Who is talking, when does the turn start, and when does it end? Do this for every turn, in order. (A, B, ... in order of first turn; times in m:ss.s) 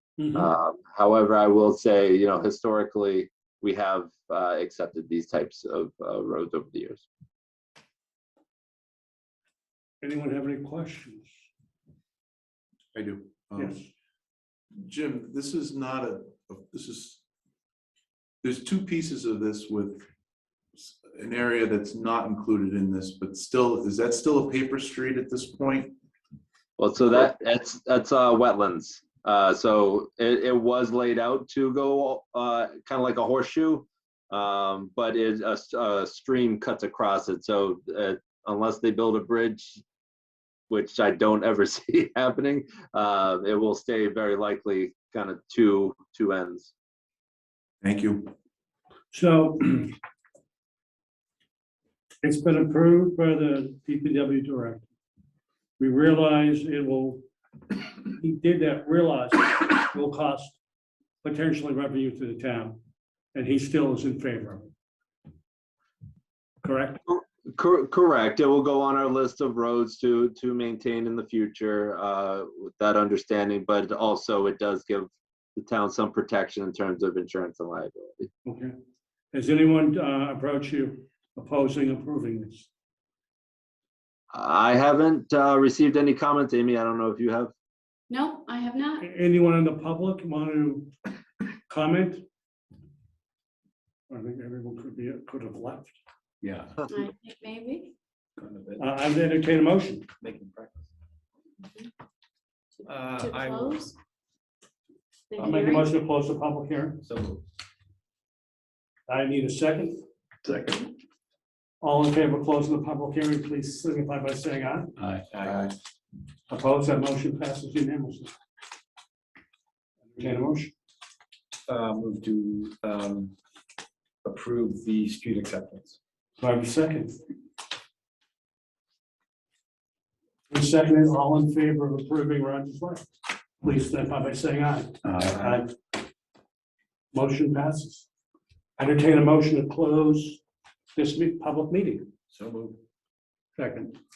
0:00.2-0:00.5 A
0:00.3-0:07.1 B
0:10.0-0:11.3 A
0:12.9-0:13.8 C
0:13.6-0:13.9 A
0:14.8-0:17.2 C
0:18.4-0:20.1 C
0:20.7-0:26.0 C
0:26.8-0:39.8 B
0:40.7-0:46.7 B
0:47.8-0:48.3 C
0:49.1-0:49.9 A
0:52.2-0:54.8 A
0:55.8-0:57.2 A
0:58.1-1:00.6 A
1:01.2-1:02.8 A
1:03.3-1:04.7 A
1:06.6-1:07.0 A
1:07.1-1:18.3 B
1:18.4-1:18.7 A
1:19.3-1:22.7 A
1:24.3-1:27.5 B
1:28.1-1:29.0 D
1:29.0-1:30.9 A
1:31.7-1:32.2 A
1:34.1-1:36.0 A
1:36.4-1:36.8 E
1:36.9-1:37.9 D
1:38.4-1:38.8 E
1:38.8-1:40.1 A
1:40.2-1:40.9 E
1:42.8-1:44.0 D
1:42.8-1:43.8 E
1:45.3-1:45.9 D
1:45.4-1:45.8 E
1:45.4-1:47.0 A
1:47.0-1:47.4 E
1:49.1-1:50.0 A
1:51.8-1:54.9 A
1:55.3-1:55.7 E
1:55.5-1:55.7 C
1:56.5-1:58.3 A
2:00.1-2:00.7 A
2:01.7-2:03.3 E
2:04.2-2:06.0 E
2:06.4-2:07.2 A
2:10.5-2:13.1 A
2:13.6-2:15.7 A
2:15.0-2:15.6 E
2:17.1-2:18.1 A
2:18.8-2:20.4 A
2:20.9-2:22.1 A
2:22.3-2:22.8 E
2:23.6-2:24.0 A